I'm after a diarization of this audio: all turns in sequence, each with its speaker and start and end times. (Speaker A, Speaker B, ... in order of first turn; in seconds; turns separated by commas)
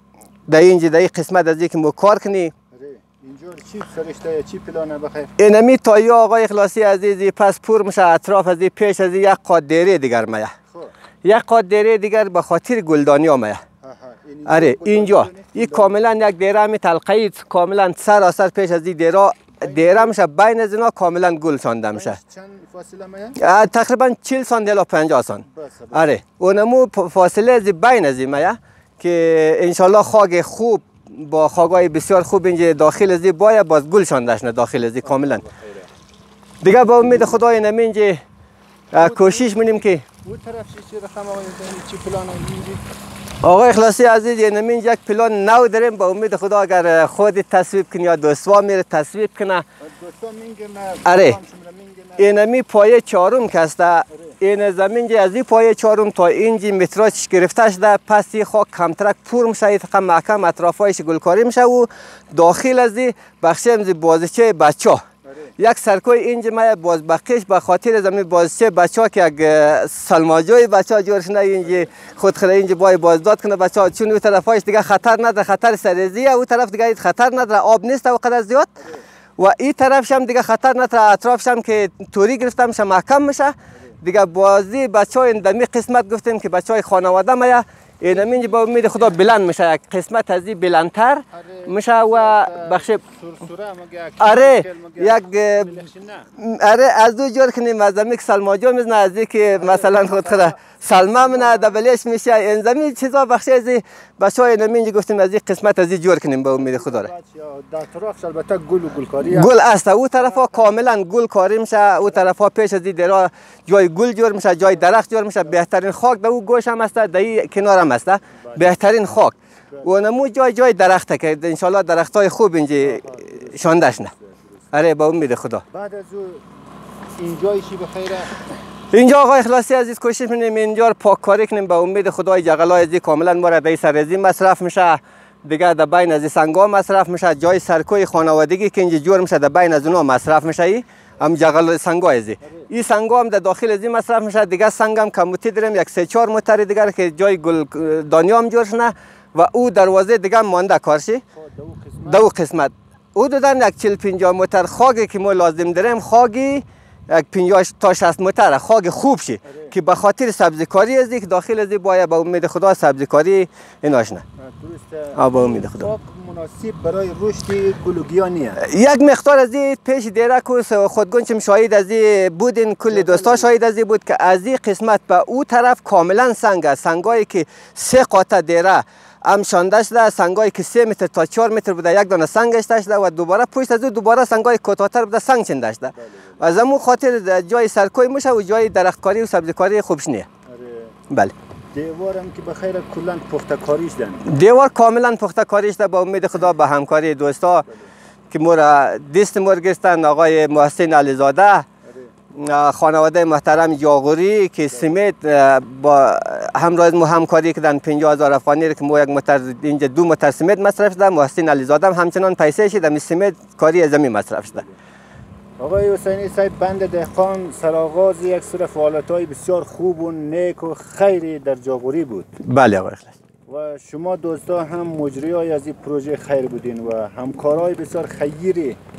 Speaker A: 0.5-2.5, Speaker B: 2.7-5.3, Speaker A: 5.4-10.5, Speaker A: 11.2-13.6, Speaker B: 13.8-15.9, Speaker A: 14.5-22.2, Speaker B: 19.6-20.1, Speaker B: 21.9-23.4, Speaker A: 23.4-35.4, Speaker B: 25.4-26.1, Speaker B: 35.0-35.9, Speaker A: 36.6-38.2, Speaker A: 38.9-40.0, Speaker B: 38.9-42.8, Speaker A: 43.4-49.6, Speaker B: 49.8-52.4, Speaker A: 51.0-51.4, Speaker A: 52.2-65.0, Speaker B: 65.2-65.5, Speaker A: 65.6-78.7, Speaker B: 71.6-71.9, Speaker A: 79.4-93.0, Speaker B: 88.1-89.2, Speaker B: 91.3-96.3, Speaker A: 94.2-95.8, Speaker A: 96.4-107.1, Speaker B: 99.5-101.8, Speaker B: 106.5-109.5, Speaker A: 109.2-124.1, Speaker B: 110.2-110.7, Speaker B: 118.4-118.7, Speaker B: 119.7-120.0, Speaker B: 122.8-124.6, Speaker A: 124.7-125.6, Speaker B: 125.7-126.5, Speaker B: 127.2-128.4, Speaker A: 128.9-151.2, Speaker B: 142.4-142.7, Speaker B: 151.3-152.3, Speaker A: 152.1-164.2, Speaker B: 159.4-159.8, Speaker B: 164.4-168.6, Speaker A: 165.2-165.9, Speaker A: 168.6-190.3, Speaker B: 172.9-173.5, Speaker B: 185.9-186.6, Speaker B: 190.5-191.0, Speaker B: 191.7-194.2, Speaker A: 194.2-197.6, Speaker B: 197.7-197.9, Speaker A: 198.3-201.7, Speaker B: 201.8-202.1, Speaker A: 202.3-214.6, Speaker B: 204.7-205.0, Speaker B: 215.6-222.4, Speaker A: 222.4-223.1, Speaker B: 223.5-228.8